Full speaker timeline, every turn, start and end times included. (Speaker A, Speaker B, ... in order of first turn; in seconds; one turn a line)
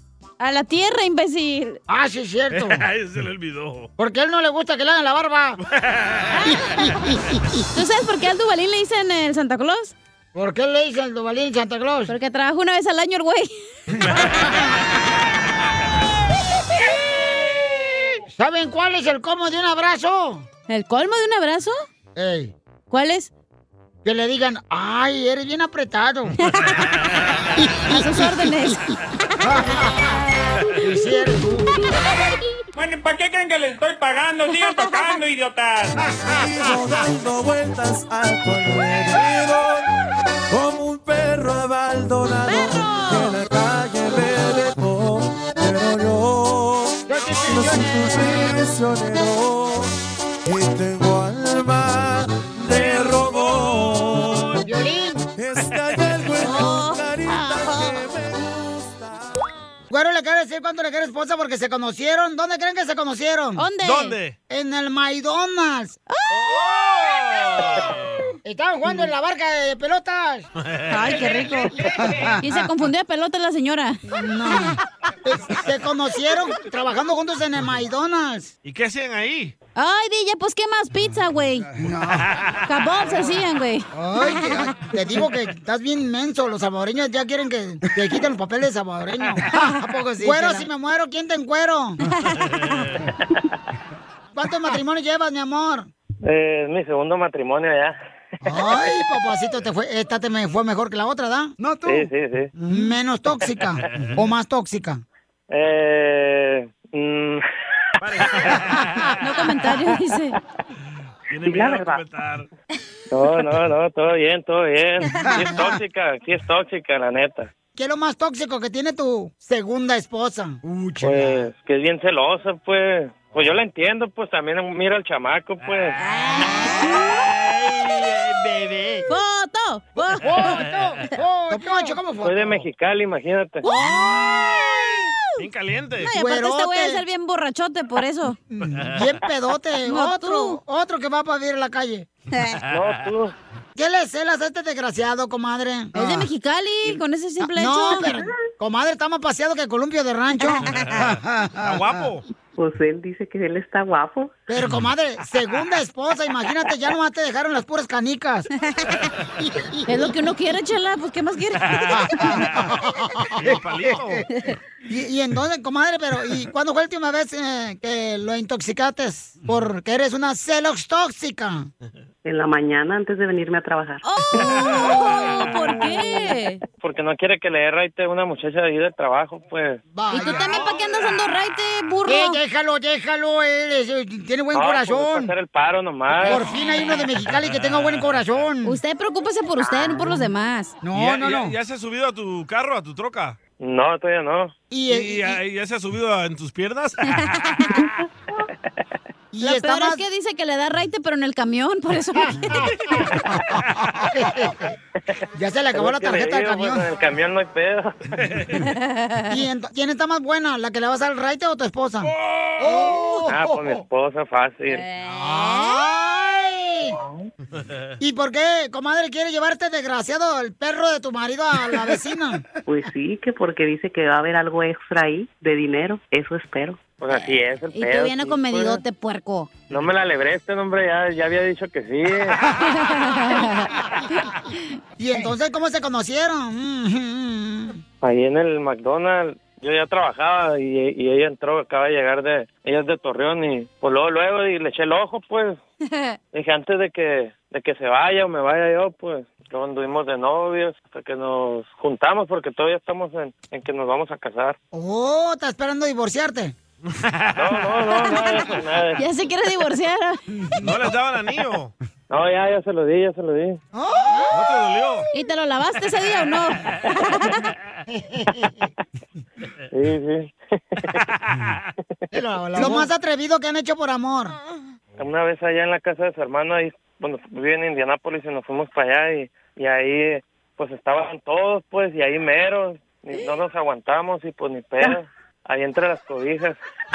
Speaker A: 0.4-1.8
Speaker B: 1.9-2.8
Speaker C: 2.5-3.9
Speaker B: 4.0-5.6
Speaker C: 5.7-6.4
Speaker A: 6.3-6.8
Speaker A: 7.7-9.9
Speaker B: 10.3-12.1
Speaker A: 12.1-13.5
Speaker C: 13.9-14.5
Speaker B: 18.3-20.4
Speaker A: 20.7-21.8
Speaker B: 22.1-22.5
Speaker A: 22.9-23.3
Speaker B: 24.0-26.4
Speaker A: 26.4-26.9
Speaker A: 27.9-28.8
Speaker B: 29.4-30.1
Speaker B: 30.8-31.8
Speaker D: 32.8-36.0
Speaker E: 36.3-39.8
Speaker E: 40.5-46.9
Speaker A: 42.4-43.4
Speaker B: 47.1-48.5
Speaker E: 47.6-49.9
Speaker E: 50.5-54.4
Speaker C: 52.7-53.8
Speaker B: 54.6-55.3
Speaker E: 55.4-59.3
Speaker A: 56.4-58.0
Speaker B: 59.9-63.6
Speaker A: 63.6-64.2
Speaker C: 63.8-64.3
Speaker B: 64.5-66.0
Speaker A: 66.1-66.7
Speaker C: 66.4-68.3
Speaker B: 68.4-70.5
Speaker C: 70.6-71.6
Speaker A: 70.9-71.8
Speaker B: 71.9-72.7
Speaker A: 72.4-74.0
Speaker B: 74.1-78.5
Speaker C: 78.6-79.5
Speaker A: 79.8-81.7
Speaker B: 81.8-82.3
Speaker C: 82.1-82.5
Speaker A: 82.7-84.8
Speaker B: 83.9-92.0
Speaker A: 90.2-90.7
Speaker A: 92.1-92.5
Speaker B: 94.3-95.9
Speaker F: 96.2-98.0
Speaker B: 98.4-105.0
Speaker F: 101.8-102.5
Speaker C: 103.9-104.2
Speaker F: 105.5-107.4
Speaker C: 108.0-109.1
Speaker A: 109.2-110.3
Speaker C: 111.3-112.5
Speaker G: 111.4-112.0
Speaker F: 113.1-117.5
Speaker B: 115.1-115.8
Speaker B: 117.8-121.5
Speaker F: 121.0-126.0
Speaker A: 126.0-127.1
Speaker C: 127.1-129.0
Speaker A: 129.1-130.6
Speaker B: 130.2-132.7
Speaker A: 131.5-131.9
Speaker F: 132.2-133.6
Speaker A: 133.6-135.4
Speaker C: 135.4-136.1
Speaker A: 136.0-138.4
Speaker B: 136.1-137.0
Speaker B: 138.5-142.1
Speaker A: 139.8-140.6
Speaker A: 142.3-142.6
Speaker F: 142.7-143.3
Speaker B: 143.8-146.3
Speaker A: 145.9-148.1
Speaker B: 147.4-152.0
Speaker C: 150.7-151.1
Speaker C: 151.6-152.2
Speaker G: 152.6-154.3
Speaker B: 154.5-158.5
Speaker A: 159.8-162.3
Speaker B: 161.9-164.2
Speaker C: 163.4-164.2
Speaker B: 164.9-171.7
Speaker G: 172.2-174.0
Speaker A: 174.0-176.6
Speaker F: 176.8-179.8
Speaker B: 179.9-180.7
Speaker A: 180.1-182.4
Speaker B: 182.1-185.3
Speaker F: 184.5-186.4
Speaker B: 186.2-188.8
Speaker A: 188.6-190.7
Speaker B: 190.8-191.5
Speaker C: 190.9-193.4
Speaker F: 193.6-194.5
Speaker B: 194.7-195.4
Speaker C: 194.9-197.9
Speaker B: 199.3-200.0
Speaker A: 199.4-202.7
Speaker B: 202.2-204.6
Speaker B: 205.3-206.8
Speaker F: 205.7-208.0
Speaker C: 208.2-208.5
Speaker A: 208.7-209.3
Speaker B: 209.3-213.8
Speaker C: 212.0-213.0
Speaker F: 213.2-214.8
Speaker A: 214.7-215.8
Speaker B: 215.0-217.0
Speaker B: 218.0-222.4
Speaker G: 222.7-226.8
Speaker F: 227.0-228.8
Speaker A: 227.7-229.5
Speaker F: 229.7-232.4
Speaker A: 232.7-233.7
Speaker B: 235.0-237.8
Speaker F: 238.0-245.6
Speaker F: 246.3-254.6
Speaker B: 254.7-256.5
Speaker C: 256.9-257.6
Speaker F: 257.4-259.0
Speaker A: 259.0-260.2
Speaker B: 260.4-260.7
Speaker C: 260.6-261.7
Speaker F: 262.1-263.6
Speaker B: 263.7-264.3
Speaker C: 264.3-265.1
Speaker A: 265.1-267.4
Speaker B: 267.9-268.5
Speaker F: 269.7-271.0
Speaker B: 272.1-274.3
Speaker F: 275.0-286.6